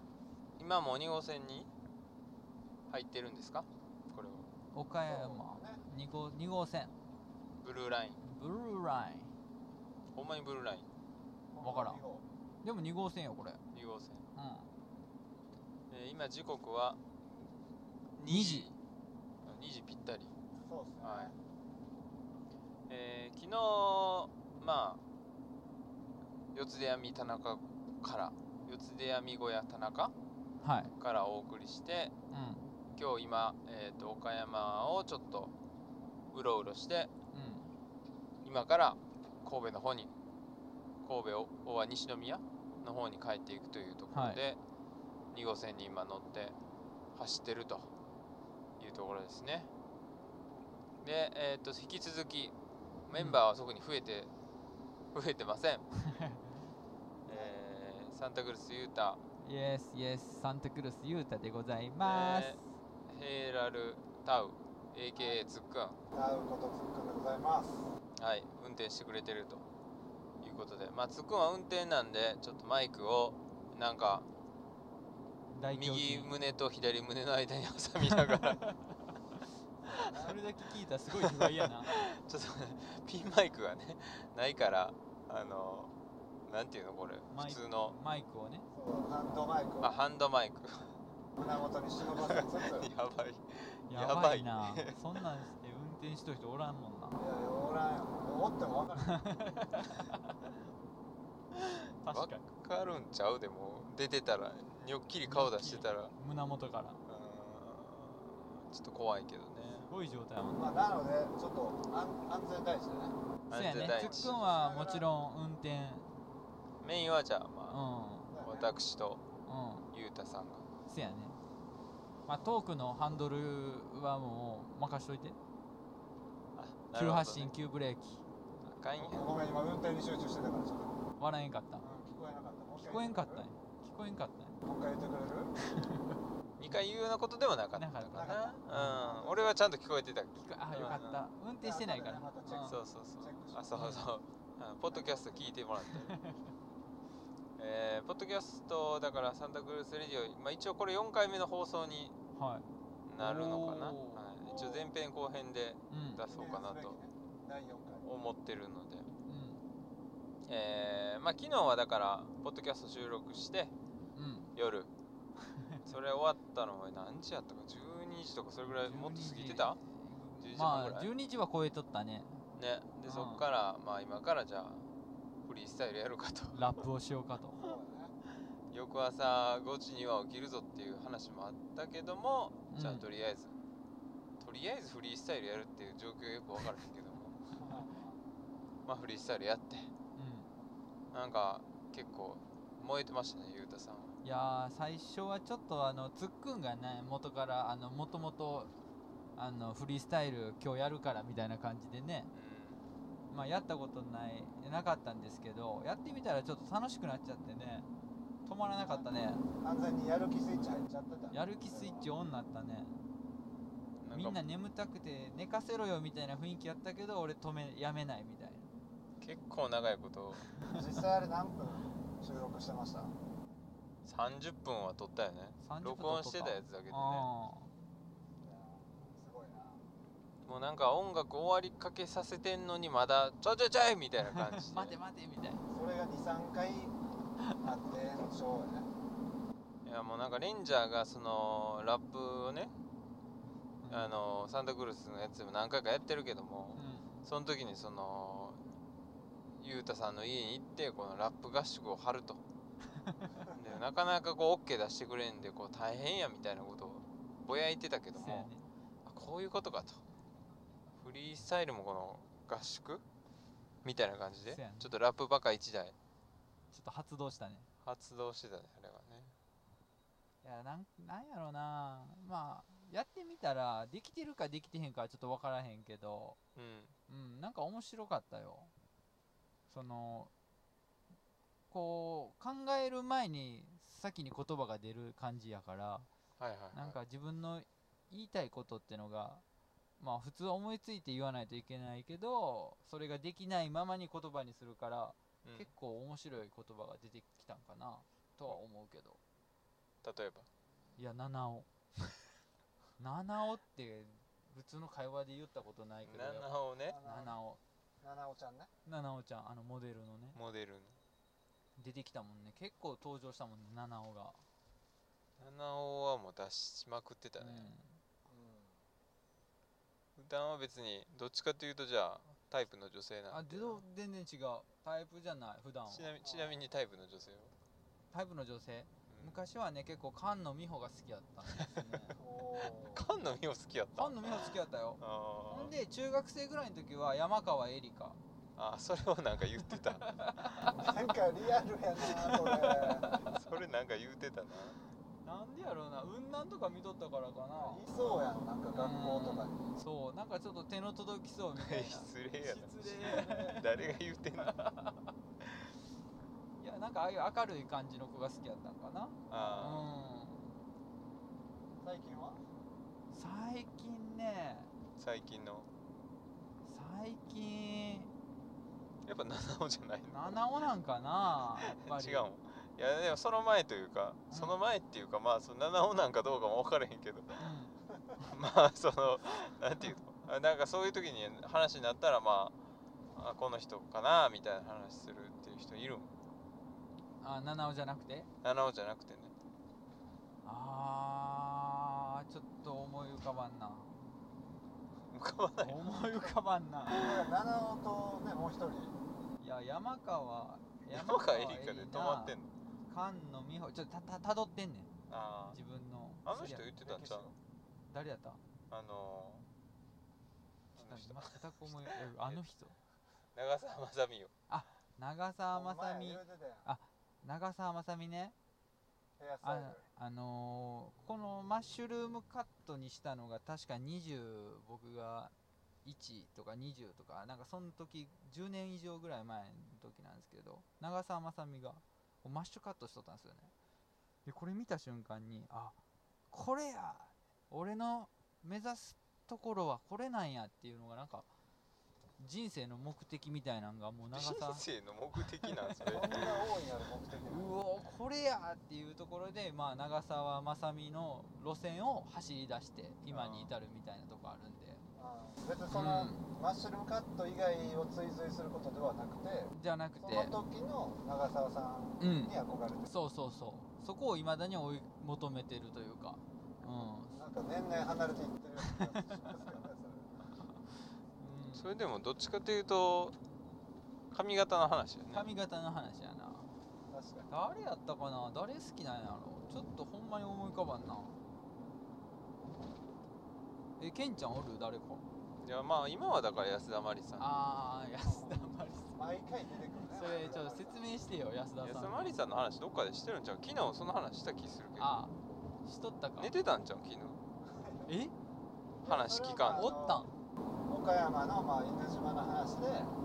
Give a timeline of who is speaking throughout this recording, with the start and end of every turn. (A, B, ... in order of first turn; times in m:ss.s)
0:00.6-0:01.7 A
0:02.9-0:04.5 A
0:04.7-0:06.9 B
0:05.1-0:05.8 C
0:07.6-0:08.2 A
0:08.2-0:09.3 B
0:10.1-0:10.9 A
0:11.5-0:12.2 C
0:11.6-0:12.0 B
0:12.6-0:13.6 B
0:13.7-0:14.2 A
0:14.4-0:14.7 B
0:15.9-0:17.0 A
0:18.2-0:18.8 A
0:18.3-0:18.7 B
0:19.4-0:20.3 A
0:20.6-0:21.4 C
0:21.0-0:21.3 A
0:22.9-0:25.0 A
0:26.5-0:30.1 A
0:30.6-0:30.9 B
0:31.0-0:32.1 A
0:32.3-0:32.7 B
0:33.0-0:35.5 A
0:36.3-0:37.1 A
0:37.3-0:37.7 B
0:38.4-0:40.1 A
0:41.0-0:44.6 A
0:44.1-0:44.4 B
0:45.3-0:46.6 A
0:47.2-0:47.9 A
0:48.8-0:49.7 A
0:51.0-0:52.5 A
0:53.1-0:54.3 A
0:53.1-0:53.4 B
0:55.1-0:55.8 A
0:56.0-0:56.5 B
0:57.3-0:59.2 A
0:57.3-0:57.6 C
0:59.4-1:02.6 B
1:02.0-1:06.0 A
1:06.1-1:07.9 C
1:08.2-1:09.6 A
1:10.4-1:14.3 A
1:15.5-1:16.3 B
1:15.7-1:18.6 A
1:18.3-1:19.0 B
1:19.9-1:20.4 C
1:19.9-1:21.9 B
1:21.2-1:25.9 A
1:26.5-1:28.0 A
1:27.3-1:28.7 B
1:28.7-1:29.9 C
1:29.8-1:30.9 A
1:31.4-1:32.9 C
1:32.1-1:35.2 A
1:33.9-1:37.2 B
1:37.2-1:39.2 C
1:39.0-1:40.4 B
1:41.5-1:42.4 B
1:42.1-1:46.1 A
1:45.2-1:47.0 B
1:47.1-1:49.9 A
1:49.9-1:50.7 B
1:50.5-1:53.2 C
1:53.5-1:54.4 A
1:53.5-1:56.1 B
1:54.0-1:55.1 C
1:56.8-1:57.8 A
1:57.7-1:58.3 B
1:58.3-1:58.7 C
1:58.4-1:59.2 A
1:59.5-1:59.9 B
1:59.9-2:00.7 A
2:00.9-2:01.4 B
2:02.3-2:05.4 B
2:06.6-2:07.5 A
2:06.9-2:08.2 B
2:08.6-2:09.3 A
2:09.0-2:11.0 C
2:11.2-2:11.9 B
2:11.8-2:13.5 C
2:12.8-2:14.6 B
2:14.6-2:15.5 C
2:15.6-2:16.2 B
2:16.6-2:21.3 A
2:17.8-2:19.1 B
2:18.2-2:19.6 C
2:20.4-2:22.8 B
2:20.8-2:21.0 C
2:21.6-2:23.7 C
2:22.7-2:26.1 A
2:23.8-2:24.1 B
2:24.9-2:25.6 C
2:25.9-2:26.4 B
2:27.6-2:32.2 A
2:32.4-2:32.7 B
2:33.1-2:37.0 A
2:33.2-2:34.2 B
2:34.4-2:34.9 C
2:35.9-2:36.2 B
2:36.2-2:38.0 C
2:38.0-2:39.1 A
2:39.3-2:39.6 B
2:40.5-2:43.7 A
2:44.1-2:44.5 B
2:44.6-2:44.9 A
2:45.5-2:45.9 B
2:45.9-2:49.8 A
2:48.6-2:52.4 B
2:50.4-2:51.1 A
2:52.6-2:54.9 A
2:53.0-2:53.4 B
2:55.4-2:56.7 A
2:56.5-2:57.8 B
2:57.5-2:58.1 C
2:58.7-3:03.5 A
3:02.7-3:03.1 B
3:04.4-3:07.4 A
3:07.6-3:08.2 C
3:08.9-3:09.9 A
3:10.2-3:10.5 B
3:11.1-3:14.1 A
3:14.2-3:18.7 B
3:19.4-3:22.3 B
3:22.3-3:22.8 A
3:23.3-3:27.9 B
3:28.5-3:29.4 B
3:28.8-3:32.1 C
3:31.3-3:33.0 B
3:34.0-3:34.4 A
3:34.1-3:38.6 B
3:39.2-3:40.5 A
3:40.7-3:43.1 C
3:44.0-3:47.3 A
3:45.6-3:47.7 B
3:48.4-3:49.8 C
3:50.4-3:55.0 A
3:54.2-3:55.6 B
3:55.7-3:57.0 C
3:57.6-3:58.9 C
3:59.8-4:02.7 A
4:03.8-4:04.1 B
4:03.9-4:08.6 A
4:06.8-4:07.2 B
4:09.6-4:12.4 A
4:13.0-4:13.3 B
4:13.5-4:18.5 A
4:18.1-4:18.7 B
4:19.0-4:20.0 A
4:21.0-4:23.0 A
4:23.8-4:26.0 A
4:24.5-4:24.9 B
4:26.7-4:27.7 B
4:27.8-4:29.3 A
4:30.4-4:36.4 B
4:36.6-4:36.9 A
4:37.1-4:38.7 B
4:39.7-4:40.3 B
4:41.7-4:46.1 B
4:46.4-4:47.0 A
4:46.7-4:49.4 B
4:50.0-4:59.2 B
4:55.4-4:55.7 A
5:00.0-5:00.5 A
5:01.0-5:01.7 B
5:03.0-5:06.5 B
5:06.1-5:07.0 A
5:06.9-5:07.4 C
5:07.0-5:07.6 B
5:08.0-5:08.7 C
5:08.9-5:10.4 B
5:10.4-5:11.0 A
5:11.8-5:14.4 B
5:15.4-5:17.7 A
5:17.4-5:18.0 B
5:18.3-5:18.8 C
5:20.2-5:23.8 A
5:23.3-5:26.1 B
5:25.9-5:27.5 A
5:26.2-5:26.6 C
5:28.1-5:32.2 B
5:29.1-5:29.4 A
5:31.6-5:31.9 A
5:32.2-5:33.1 C
5:32.9-5:35.7 A
5:34.0-5:38.2 B
5:38.6-5:40.1 A
5:40.0-5:41.0 B
5:40.7-5:43.2 C
5:42.0-5:43.3 B
5:43.2-5:44.8 A
5:45.2-5:47.8 B
5:47.6-5:49.7 C
5:48.7-5:53.9 B
5:51.6-5:54.5 A
5:54.4-5:55.1 B
5:56.6-6:00.6 B
5:59.3-5:59.9 A
6:01.8-6:02.4 C
6:03.1-6:04.7 B
6:05.0-6:05.7 A
6:06.6-6:08.1 B
6:09.1-6:10.4 A
6:10.1-6:12.3 B
6:11.7-6:17.4 A
6:14.3-6:14.6 B
6:17.4-6:17.7 B
6:18.2-6:22.6 A
6:23.1-6:26.1 A
6:27.2-6:28.3 B
6:28.4-6:29.3 A
6:30.4-6:34.1 B
6:35.1-6:35.9 A
6:35.6-6:37.3 B
6:36.9-6:39.0 C
6:39.4-6:42.4 B
6:40.9-6:42.5 A
6:42.9-6:44.9 B
6:45.1-6:45.6 A
6:45.5-6:46.7 B
6:46.2-6:47.3 A
6:46.8-6:47.4 C
6:47.9-6:48.4 B
6:48.7-6:49.4 A
6:50.8-6:52.4 A
6:50.8-6:52.8 B
6:53.3-6:54.3 A
6:54.5-6:58.4 B
6:55.5-6:56.7 C
6:59.2-6:59.8 C
6:59.4-7:05.3 B
7:05.8-7:13.5 B
7:14.2-7:15.8 B
7:16.3-7:21.3 B
7:22.2-7:26.5 B
7:24.1-7:26.1 A
7:25.9-7:27.6 C
7:27.3-7:34.8 B
7:33.1-7:33.5 A
7:35.0-7:42.9 C
7:35.7-7:36.3 B
7:39.6-7:40.4 B
7:42.0-7:42.3 B
7:42.9-7:47.2 B
7:47.1-7:50.2 C
7:48.6-7:49.1 B
7:51.2-7:51.7 B
7:51.6-7:53.2 A
7:54.1-7:55.3 A
7:55.1-7:56.5 B
7:56.9-7:57.3 C
7:57.3-8:01.2 B
8:03.8-8:05.0 B
8:05.4-8:07.2 A
8:07.2-8:09.0 B
8:08.0-8:10.9 C
8:09.9-8:12.2 B
8:11.6-8:14.9 A
8:14.8-8:16.3 B
8:16.2-8:17.2 A
8:17.4-8:17.9 C
8:17.9-8:18.1 B
8:18.8-8:20.1 C
8:18.8-8:19.8 A
8:19.5-8:20.1 B
8:20.7-8:22.9 C